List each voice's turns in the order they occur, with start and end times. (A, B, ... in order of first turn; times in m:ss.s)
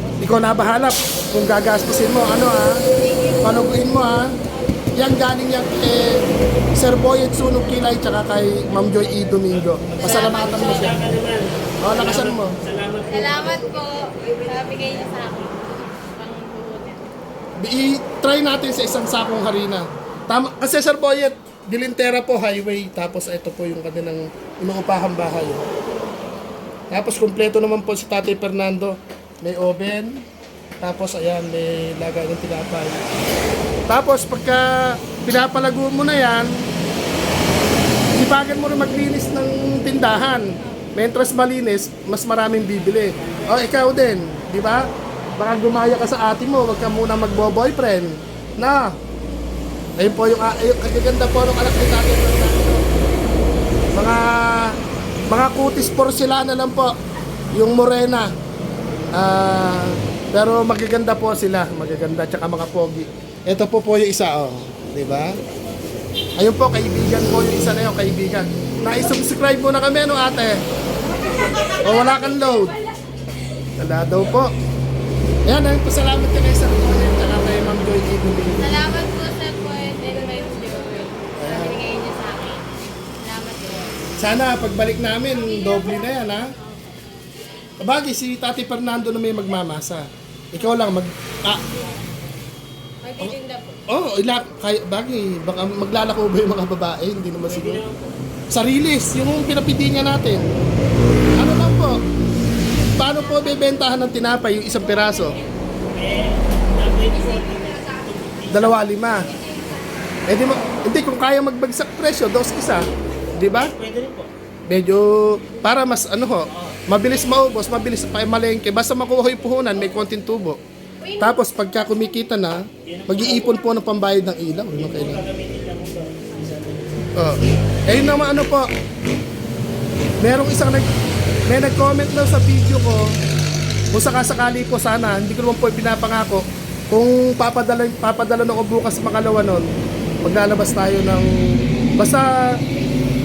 0:00.2-0:02.8 A
0:03.1-0:03.4 B
0:03.4-0:04.3 A
0:05.0-0:06.2 A
0:06.7-0:11.0 A
0:09.2-0:13.7 C
0:10.0-0:10.9 B
0:11.8-0:12.6 A
0:13.1-0:17.1 B
0:17.6-0:25.6 A
0:26.9-0:30.2 A
0:30.8-0:33.0 A
0:33.9-0:36.5 A
0:38.2-0:49.0 A
0:42.7-0:43.8 C
0:50.0-0:52.8 A
0:53.9-0:54.8 A
0:55.3-0:56.9 A
0:57.5-0:58.3 A
0:59.1-1:05.4 A
1:06.4-1:10.6 A
1:11.3-1:12.6 B
1:11.8-1:12.8 A
1:13.8-1:14.5 A
1:15.4-1:19.0 A
1:18.6-1:22.6 B
1:21.4-1:21.8 A
1:23.2-1:24.0 B
1:24.2-1:26.5 A
1:25.3-1:26.9 B
1:27.8-1:31.7 A
1:33.0-1:33.8 B
1:33.9-1:37.8 A
1:37.4-1:38.1 C
1:38.5-1:40.5 A
1:41.4-1:42.0 A
1:42.9-1:45.4 A
1:43.1-1:43.7 B
1:44.8-1:45.5 B
1:45.8-1:48.9 C
1:47.1-1:48.0 B
1:48.5-1:49.3 A
1:49.2-1:50.2 B
1:50.3-1:53.7 A
1:53.4-1:54.3 C
1:54.7-2:00.6 A
1:56.5-1:56.8 C
2:01.0-2:01.4 B
2:01.2-2:05.2 A
2:02.8-2:03.7 C
2:04.7-2:07.1 C
2:07.2-2:08.7 A
2:10.2-2:10.9 A
2:11.5-2:13.1 A
2:13.9-2:19.7 A
2:20.2-2:22.3 A